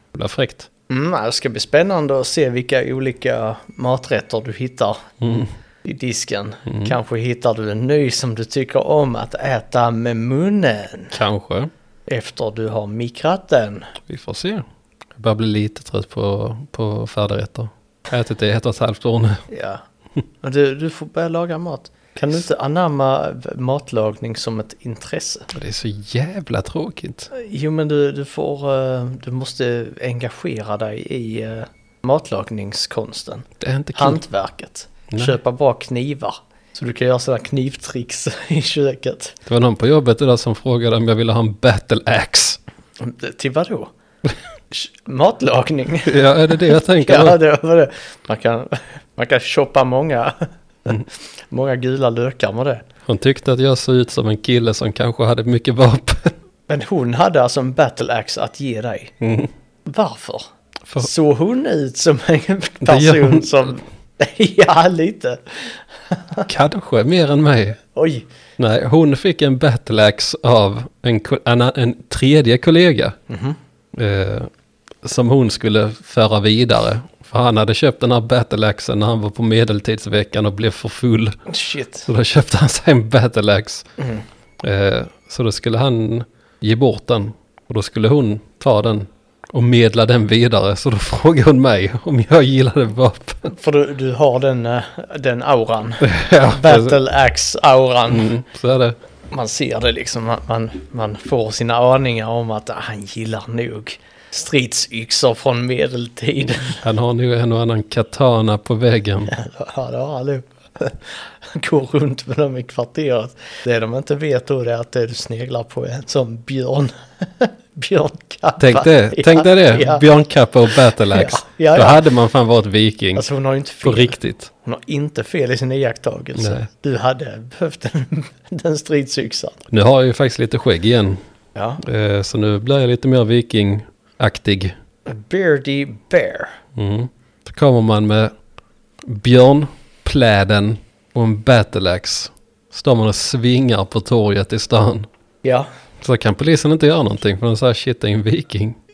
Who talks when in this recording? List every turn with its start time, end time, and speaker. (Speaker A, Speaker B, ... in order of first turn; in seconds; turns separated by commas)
Speaker A: 0.1-0.7, Speaker B: 0.9-5.0, Speaker A: 5.2-5.5, Speaker B: 5.8-11.2, Speaker A: 6.7-6.9, Speaker A: 11.1-11.7, Speaker B: 12.1-13.9, Speaker A: 14.1-14.6, Speaker A: 15.2-19.4, Speaker B: 19.5-19.8, Speaker B: 20.4-25.5, Speaker A: 25.5-27.3, Speaker B: 27.3-39.4, Speaker A: 33.6-34.2, Speaker A: 39.5-42.6, Speaker B: 43.0-43.9, Speaker B: 44.7-52.8, Speaker A: 46.0-47.4, Speaker A: 53.0-56.3, Speaker B: 56.7-59.1, Speaker A: 59.2-59.5, Speaker B: 59.9-60.5, Speaker B: 61.0-66.5, Speaker A: 62.8-63.8, Speaker A: 66.4-67.8, Speaker B: 67.9-68.3, Speaker A: 68.6-73.2, Speaker B: 73.3-73.6, Speaker A: 73.9-74.5, Speaker A: 75.0-81.4, Speaker B: 81.5-82.1, Speaker A: 82.0-83.8, Speaker B: 84.0-84.2, Speaker A: 84.6-93.5, Speaker B: 93.5-98.3, Speaker A: 96.0-97.0, Speaker A: 98.1-99.0, Speaker B: 99.3-106.8, Speaker A: 106.7-109.3, Speaker B: 109.3-120.1, Speaker A: 118.6-123.2, Speaker B: 120.9-122.1, Speaker B: 123.2-129.6, Speaker A: 123.8-124.5, Speaker A: 126.4-126.7, Speaker A: 129.7-131.2, Speaker B: 131.5-131.8, Speaker A: 131.8-134.7, Speaker B: 135.1-136.6, Speaker A: 136.7-138.3, Speaker A: 139.0-145.1, Speaker B: 145.4-145.7, Speaker A: 146.0-148.8